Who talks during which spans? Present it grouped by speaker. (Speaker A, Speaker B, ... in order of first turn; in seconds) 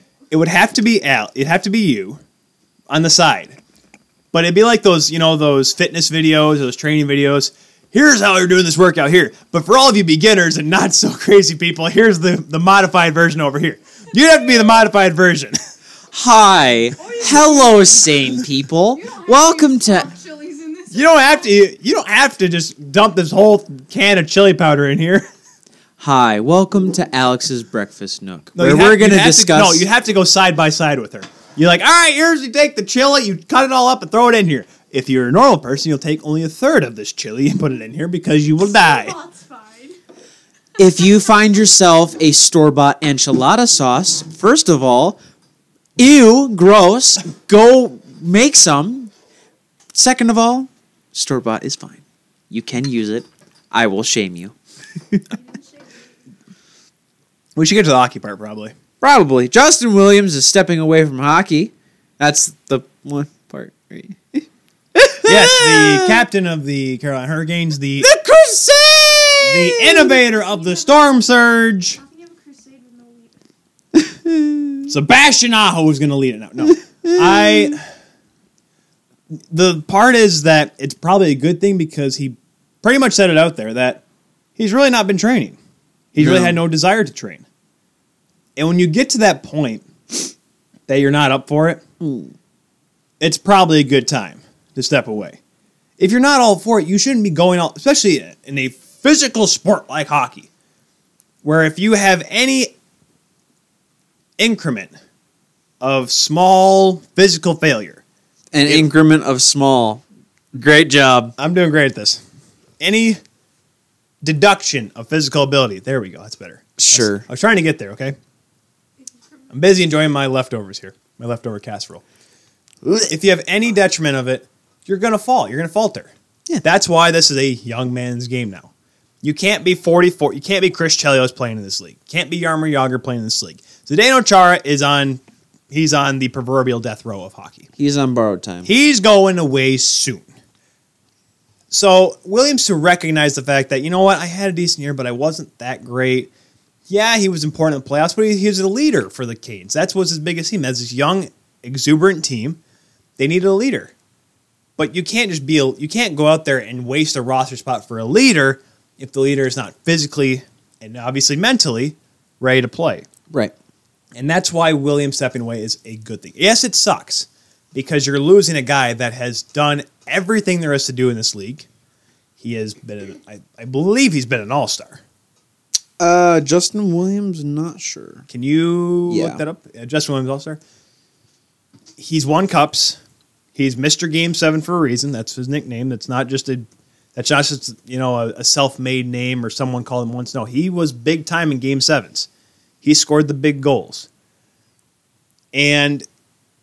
Speaker A: 0.3-2.2, 2.9-3.6, 4.3-15.6, 20.9-25.2, 28.5-39.1, 57.5-58.7, 65.2-68.1, 69.4-72.0, 74.9-77.8, 79.5-84.0, 84.6-85.6, 86.1-87.4, 88.5-90.3, 90.9-91.8, 93.2-95.4, 96.0-100.5, 101.4-102.7, 104.4-104.9, 105.8-108.0, 111.4-112.2, 112.8-113.2, 114.2-118.1, 119.5-122.0, 122.8-128.7, 129.2-137.7, 138.6-140.3, 141.7-146.3, 146.9-152.6, 153.2-153.9, 154.8-163.1, 164.1-171.7, 172.4-175.0, 178.3-180.6, 182.0-183.0, 183.5-192.3, 192.8-194.1, 195.5-196.0
Speaker B: 16.1-20.1, 26.0-29.8, 40.8-45.2, 46.0-49.1, 49.9-54.5, 59.0-66.2, 68.0-70.1, 73.9-74.9, 76.7-77.8, 86.2-86.6, 92.0-92.3, 108.5-111.3, 116.8-117.2, 137.8-138.7, 176.0-178.2, 179.1-179.4
Speaker C: 17.0-18.4, 18.9-21.5, 38.6-40.0, 40.9-41.3, 55.3-55.9, 70.0-73.4, 119.0-119.5